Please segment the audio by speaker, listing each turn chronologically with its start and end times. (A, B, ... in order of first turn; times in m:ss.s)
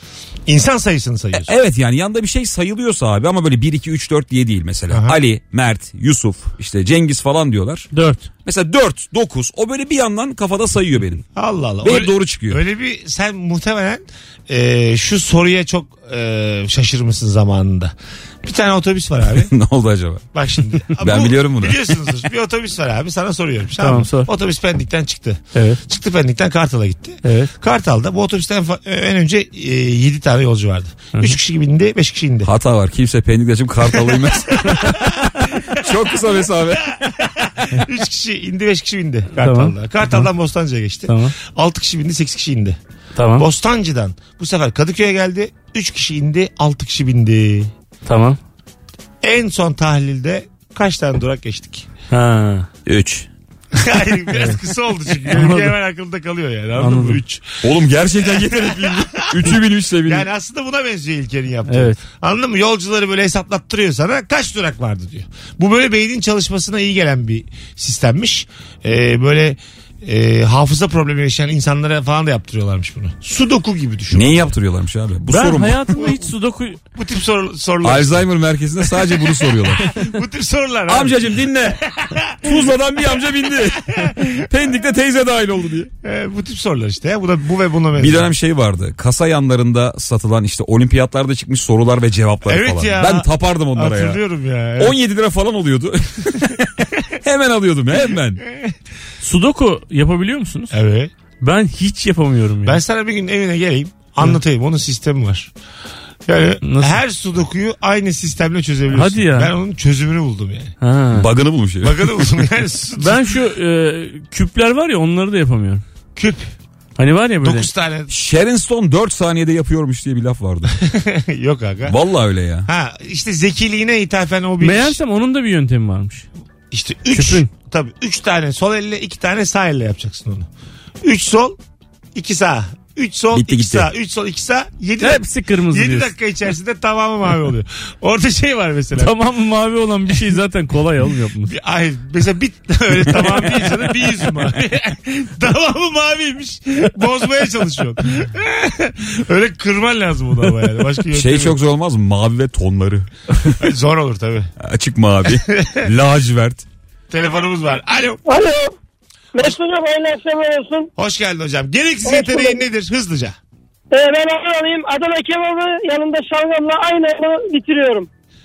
0:00.5-0:01.5 A
0:01.3-0:07.9 B
0:04.9-0:05.2 A
0:07.9-0:08.3 C
0:08.4-0:11.2 B
0:11.3-0:19.5 A
0:11.8-0:12.6 B
0:19.4-0:20.2 B
0:20.3-0:32.5 A
0:21.0-0:21.8 B
0:23.8-0:24.3 C
0:25.5-0:25.8 C
0:27.2-0:27.5 C
0:32.4-0:37.0 B
0:33.9-0:42.8 A
0:39.4-0:40.2 C
0:41.1-0:41.3 C
0:43.1-0:43.5 C
0:43.4-0:47.7 A
0:48.0-0:48.4 C
0:49.2-0:51.9 A
0:52.1-0:52.7 C
0:52.8-0:53.3 B
0:53.7-1:14.4 A
0:55.3-0:55.7 C
0:56.8-0:57.2 C
0:57.6-1:00.2 B
1:01.7-1:02.0 C
1:14.1-1:16.0 B
1:15.3-1:16.8 C
1:16.0-1:16.2 A
1:16.9-1:18.3 A
1:17.8-1:20.0 B
1:18.9-1:22.7 A
1:20.9-1:21.8 B
1:22.4-1:25.9 B
1:23.7-1:24.4 A
1:26.0-1:28.3 A
1:28.0-1:34.2 B
1:32.4-1:35.0 A
1:34.8-1:38.4 B
1:39.2-1:40.7 C
1:40.7-1:41.1 A
1:41.4-1:42.8 C
1:42.6-1:45.5 A
1:46.2-1:50.7 A
1:46.6-1:47.0 C
1:48.9-1:49.5 C
1:50.8-1:51.3 C
1:51.1-1:52.4 B
1:51.8-1:53.3 A
1:53.0-1:55.8 C
1:56.2-1:56.5 A
1:57.0-1:57.7 C
1:57.4-1:58.1 A
1:58.1-2:00.8 B
2:00.8-2:02.0 A
2:01.8-2:02.7 B
2:02.6-2:05.0 A
2:04.6-2:06.2 C
2:06.7-2:10.5 A
2:07.1-2:07.5 C
2:11.0-2:11.6 A
2:12.1-2:19.2 A
2:13.3-2:13.9 B
2:15.0-2:16.1 C
2:18.9-2:21.5 C
2:21.4-2:31.6 A
2:31.1-2:33.5 B
2:33.6-2:34.5 A
2:34.6-2:36.6 B
2:35.3-2:35.9 A
2:37.1-2:38.2 A
2:38.2-2:38.7 D
2:39.3-2:40.9 D
2:41.0-2:43.4 A
2:42.0-2:42.6 D
2:43.9-2:48.1 D